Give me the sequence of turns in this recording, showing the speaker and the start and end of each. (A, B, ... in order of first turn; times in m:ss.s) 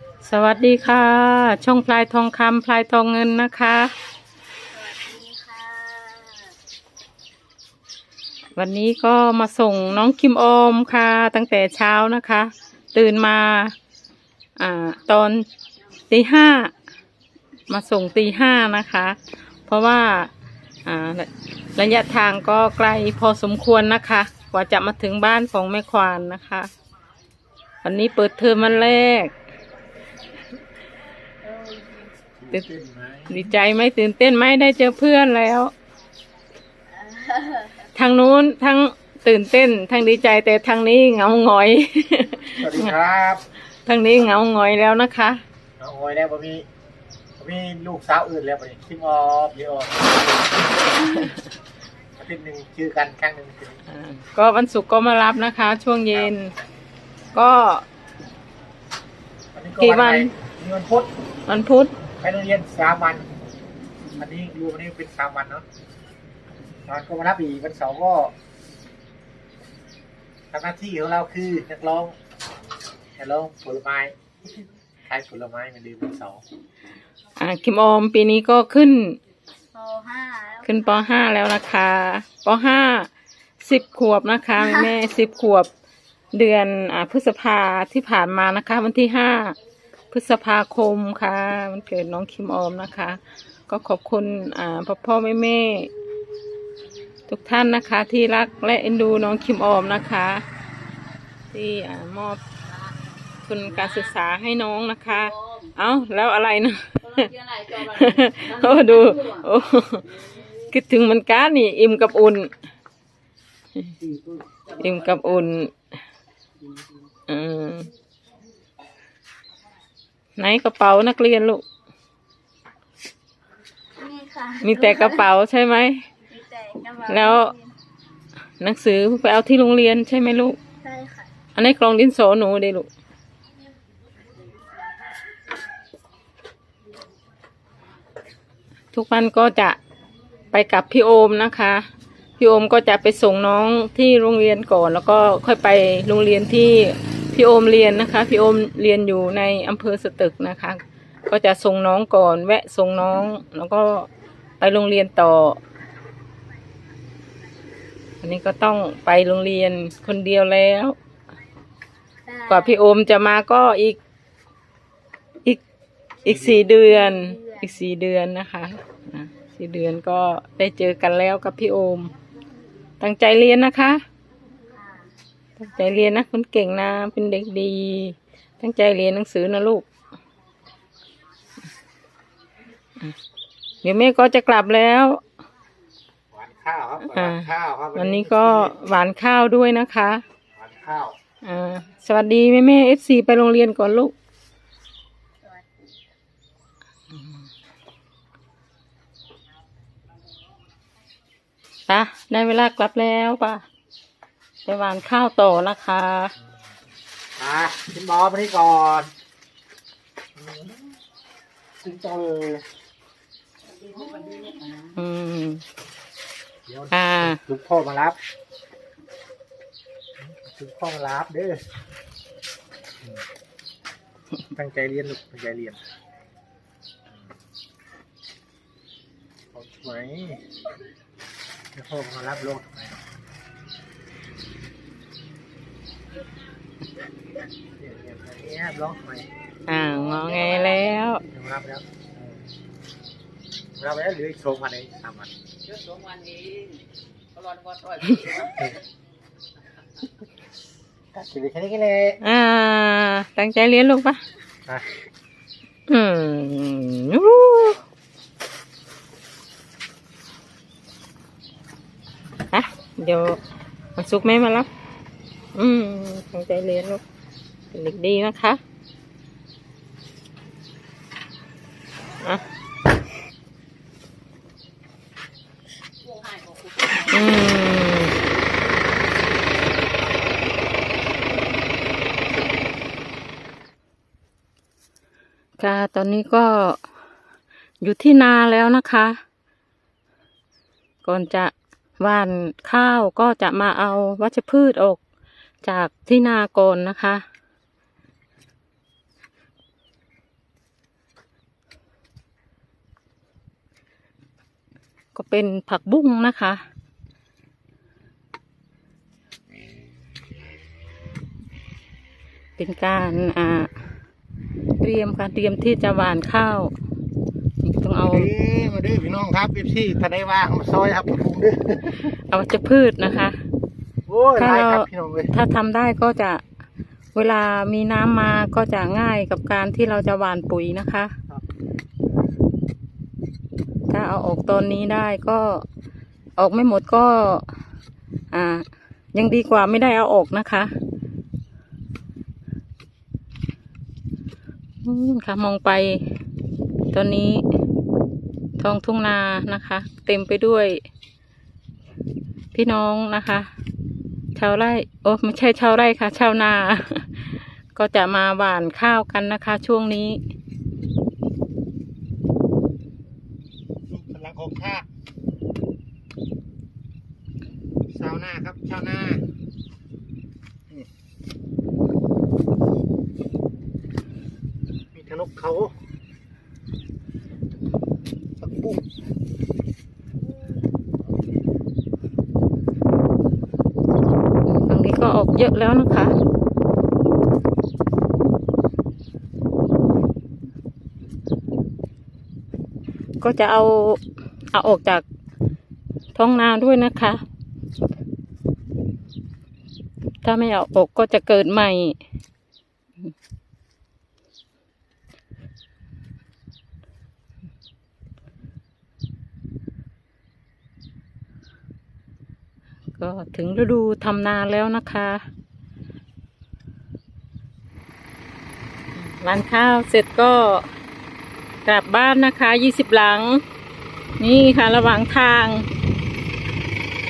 0:00.2-0:03.9 A
0:04.7-0:06.5 B
0:08.6-0:13.8 A
0:14.6-0:15.5 A
0:16.1-0:16.7 A
0:17.7-0:20.3 A
0:20.9-0:26.7 A
0:27.8-0:29.3 A
0:31.4-0:32.1 B
0:32.4-0:33.5 C
0:33.3-0:35.7 A
0:37.0-0:37.8 B
0:37.9-0:43.0 A
0:42.6-0:43.4 C
0:43.9-0:45.4 A
0:45.8-0:46.6 C
0:47.4-0:50.7 C
0:51.0-0:51.3 A
0:52.2-0:53.8 C
0:53.9-0:56.5 A
0:57.3-0:57.9 A
0:59.5-1:01.1 C
0:59.8-1:00.3 A
1:01.5-1:01.9 A
1:02.2-1:03.3 C
1:04.2-1:05.6 C
1:06.9-1:08.3 C
1:10.5-1:12.2 C
1:13.2-1:14.2 C
1:15.1-1:16.4 C
1:17.4-1:19.2 A
1:19.7-1:20.8 B
1:20.6-1:23.1 A
1:23.6-1:25.7 A
1:26.3-1:29.6 A
1:30.1-1:35.9 A
1:37.3-1:40.4 A
1:41.5-1:42.4 A
1:43.4-1:52.5 A
1:47.2-1:48.0 B
1:54.7-1:55.7 A
1:57.3-1:57.9 A
2:00.4-2:01.6 A
2:04.0-2:05.2 B
2:04.6-2:06.1 A
2:06.2-2:07.7 B
2:07.1-2:07.6 A
2:08.6-2:10.6 A
2:10.8-2:11.3 B
2:11.6-2:12.9 A
2:18.9-2:19.8 A
2:20.5-2:21.8 A
2:22.4-2:34.1 A
2:34.6-2:35.6 A
2:38.2-2:41.0 A
2:42.2-2:42.7 B
2:42.5-2:44.0 A
2:46.2-2:52.1 A
2:46.3-2:46.6 C
2:47.1-2:47.6 B
2:53.0-2:54.0 A
2:54.7-2:55.1 B
2:55.6-2:59.9 A
3:03.8-3:05.2 A
3:06.3-3:08.8 C
3:07.1-3:10.2 A
3:10.6-3:11.2 C
3:11.4-3:14.1 A
3:21.9-3:23.6 A
3:24.6-3:26.3 A
3:27.4-3:29.1 C
3:30.4-3:30.8 C
3:31.8-3:32.7 C
3:33.9-3:34.8 B
3:34.9-3:35.6 A
3:36.7-3:38.2 C
3:36.9-3:37.4 A
3:40.2-3:41.6 C
3:44.5-3:45.8 C
3:49.5-3:50.4 C
3:51.7-3:53.0 C
3:57.8-3:59.3 C
3:59.7-4:01.2 A
4:01.3-4:02.4 C
4:03.8-4:05.3 C
4:05.7-4:06.8 B
4:07.4-4:08.5 B
4:08.4-4:08.8 C
4:11.1-4:12.2 C
4:12.2-4:14.2 A
4:15.9-4:17.8 A
4:22.5-4:23.4 A
4:24.0-4:24.7 A
4:25.6-4:27.0 A
4:27.7-4:28.6 A
4:36.1-4:37.1 B
4:37.0-4:38.1 A
4:45.6-4:46.8 A
4:47.8-4:49.2 A
4:51.0-4:55.0 A
4:55.6-4:57.2 A
5:05.2-5:06.6 A
5:12.6-5:13.8 A
5:14.8-5:16.7 A
5:17.6-5:18.3 A
5:18.1-5:22.1 C
5:22.1-5:23.4 A
5:24.1-5:25.3 C
5:24.4-5:26.4 A
5:27.2-5:31.2 A
5:33.9-5:35.6 A
5:36.4-5:37.5 A
5:38.3-5:40.7 A
5:44.8-5:46.0 A
5:46.9-5:47.4 A
5:48.6-5:50.8 A
5:52.5-5:53.5 A
5:54.4-6:00.2 A
6:03.9-6:04.8 C
6:07.9-6:09.2 C
6:14.9-6:15.8 C
6:18.4-6:18.8 C
6:24.5-6:26.2 A
6:33.2-6:34.0 A
6:34.5-6:35.0 A
6:36.2-6:37.2 A
6:40.2-6:42.0 A
6:53.0-6:55.2 A
6:58.9-7:00.7 A
7:01.6-7:03.4 A
7:04.2-7:05.7 A